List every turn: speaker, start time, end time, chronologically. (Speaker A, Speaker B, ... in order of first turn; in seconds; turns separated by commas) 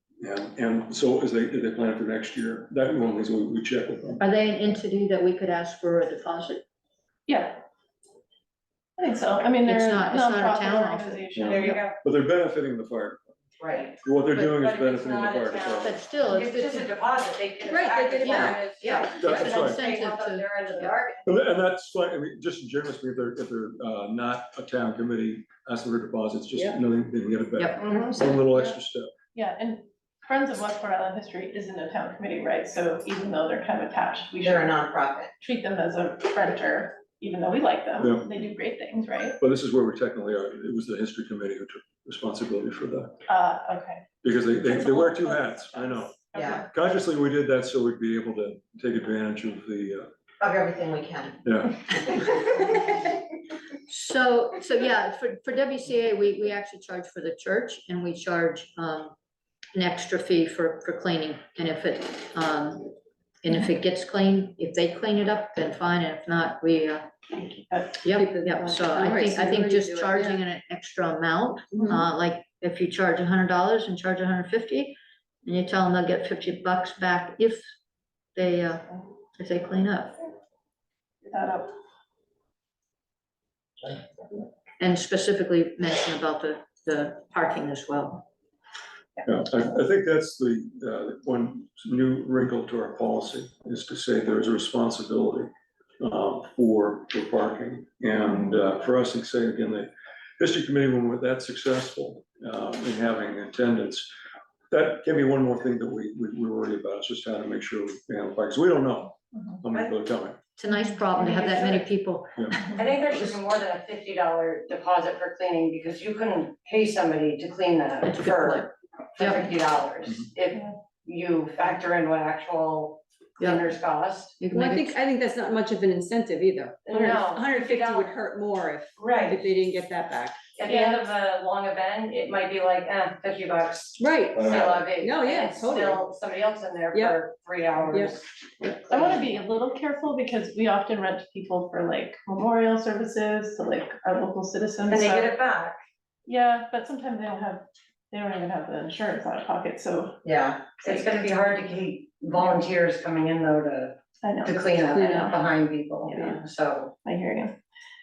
Speaker A: 0.2-4.2, Speaker B: 4.2-6.6, Speaker C: 7.3-7.6, Speaker C: 9.0-11.8, Speaker B: 9.6-11.8, Speaker A: 11.3-13.4, Speaker D: 11.4-12.0, Speaker E: 13.6-13.9, Speaker A: 14.0-16.0, Speaker D: 14.3-21.3, Speaker B: 15.8-16.9, Speaker F: 17.6-19.4, Speaker B: 18.2-20.9, Speaker A: 19.1-19.8, Speaker A: 21.2-29.1, Speaker F: 26.5-26.8, Speaker B: 27.6-28.5, Speaker D: 27.8-28.1, Speaker C: 29.3-34.8, Speaker E: 34.4-35.3, Speaker C: 35.4-39.4, Speaker A: 38.0-38.3, Speaker A: 39.4-43.2, Speaker C: 43.3-46.7, Speaker A: 44.2-50.1, Speaker E: 46.3-46.6, Speaker E: 50.4-52.4, Speaker A: 51.4-51.9, Speaker B: 53.9-59.1, Speaker B: 59.7-67.2, Speaker C: 67.3-68.0, Speaker B: 68.0-77.6, Speaker F: 68.1-70.4, Speaker C: 68.8-69.4, Speaker B: 78.3-80.2, Speaker C: 81.2-81.7, Speaker B: 84.8-88.2, Speaker A: 89.2-104.1, Speaker A: 104.7-110.4, Speaker B: 110.6-112.5, Speaker D: 111.2-111.8, Speaker D: 112.6-124.4, Speaker B: 118.0-119.4, Speaker B: 123.4-123.7, Speaker B: 124.4-125.0, Speaker F: 124.5-130.5, Speaker D: 126.8-128.1, Speaker D: 129.0-129.4, Speaker D: 130.6-138.2, Speaker C: 130.7-131.0, Speaker F: 134.0-136.0, Speaker A: 134.5-134.8, Speaker F: 137.9-139.0, Speaker D: 138.9-139.3, Speaker C: 138.9-145.3, Speaker D: 144.8-145.8, Speaker C: 146.2-150.2, Speaker E: 150.2-150.6, Speaker D: 150.8-156.9, Speaker C: 154.2-154.7, Speaker F: 154.9-155.4, Speaker F: 156.1-156.4, Speaker C: 157.0-157.6